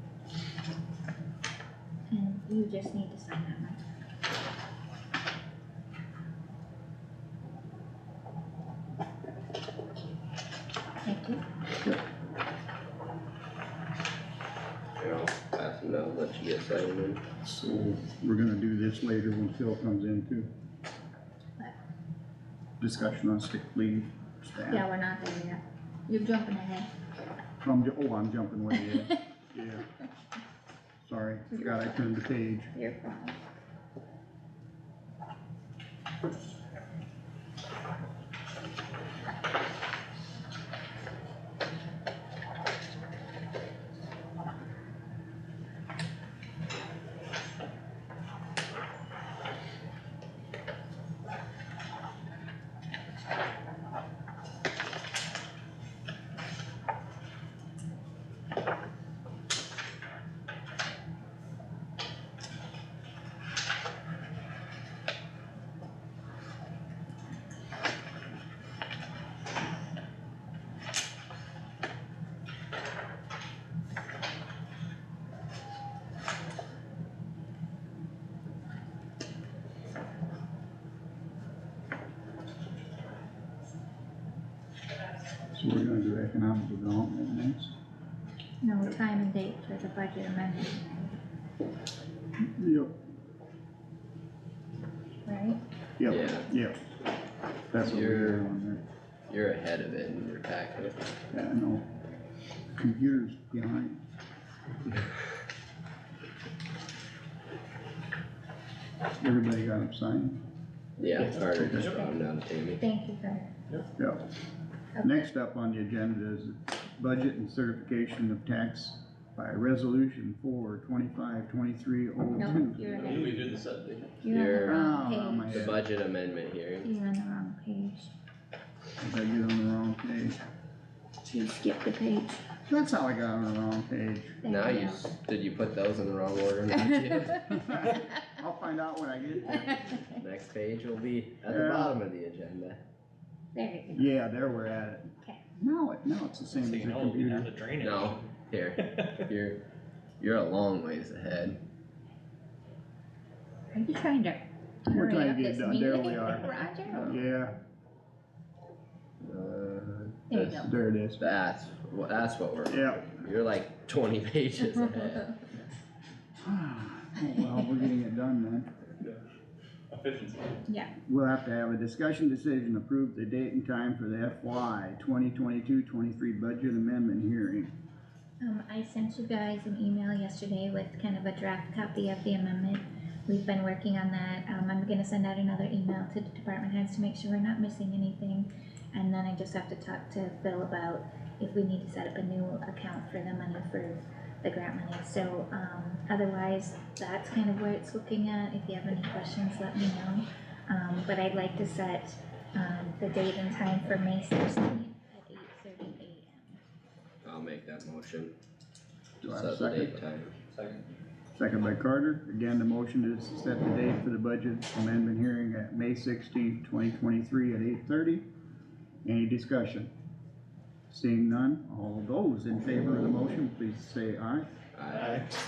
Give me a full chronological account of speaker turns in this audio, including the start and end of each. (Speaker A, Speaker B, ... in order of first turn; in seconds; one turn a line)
Speaker A: 2.1-3.8
Speaker A: 11.0-11.4
Speaker B: 15.0-17.2
Speaker C: 17.4-20.5
Speaker C: 22.8-24.8
Speaker A: 24.7-26.9
Speaker C: 27.6-29.9
Speaker C: 31.0-32.7
Speaker A: 31.5-31.9
Speaker A: 32.7-33.4
Speaker C: 85.5-87.7
Speaker A: 88.6-91.1
Speaker C: 92.6-92.9
Speaker A: 95.2-95.6
Speaker C: 96.0-96.8
Speaker B: 96.0-96.5
Speaker C: 97.7-98.8
Speaker B: 97.8-98.4
Speaker B: 99.3-101.0
Speaker C: 101.3-101.9
Speaker C: 102.7-104.0
Speaker C: 109.2-110.4
Speaker B: 111.0-112.8
Speaker C: 111.3-111.9
Speaker A: 112.8-113.5
Speaker C: 114.0-114.2
Speaker A: 115.0-115.2
Speaker C: 115.0-123.4
Speaker A: 122.3-123.5
Speaker D: 122.8-124.2
Speaker A: 124.1-125.7
Speaker B: 124.3-124.8
Speaker C: 124.6-125.8
Speaker B: 125.5-126.9
Speaker A: 126.8-128.1
Speaker C: 129.0-130.4
Speaker A: 131.2-132.4
Speaker C: 132.7-134.4
Speaker A: 134.4-135.1
Speaker B: 134.4-137.5
Speaker C: 137.5-139.9
Speaker B: 140.1-142.8
Speaker C: 141.5-142.0
Speaker A: 143.5-144.1
Speaker C: 143.9-147.5
Speaker D: 146.5-149.3
Speaker B: 147.8-149.6
Speaker B: 150.2-151.6
Speaker A: 153.7-157.2
Speaker C: 154.9-157.6
Speaker B: 159.2-160.7
Speaker A: 160.3-160.7
Speaker C: 160.6-161.2
Speaker B: 161.2-165.3
Speaker C: 162.7-163.0
Speaker C: 166.4-168.7
Speaker A: 167.2-167.5
Speaker D: 169.9-170.6
Speaker A: 170.7-170.9
Speaker C: 171.1-177.7
Speaker A: 178.4-206.6
Speaker B: 207.2-208.3
Speaker C: 209.2-210.0
Speaker B: 209.2-210.3
Speaker D: 210.5-210.8
Speaker C: 211.3-218.2
Speaker C: 219.0-219.9
Speaker C: 220.9-224.5
Speaker B: 224.7-225.2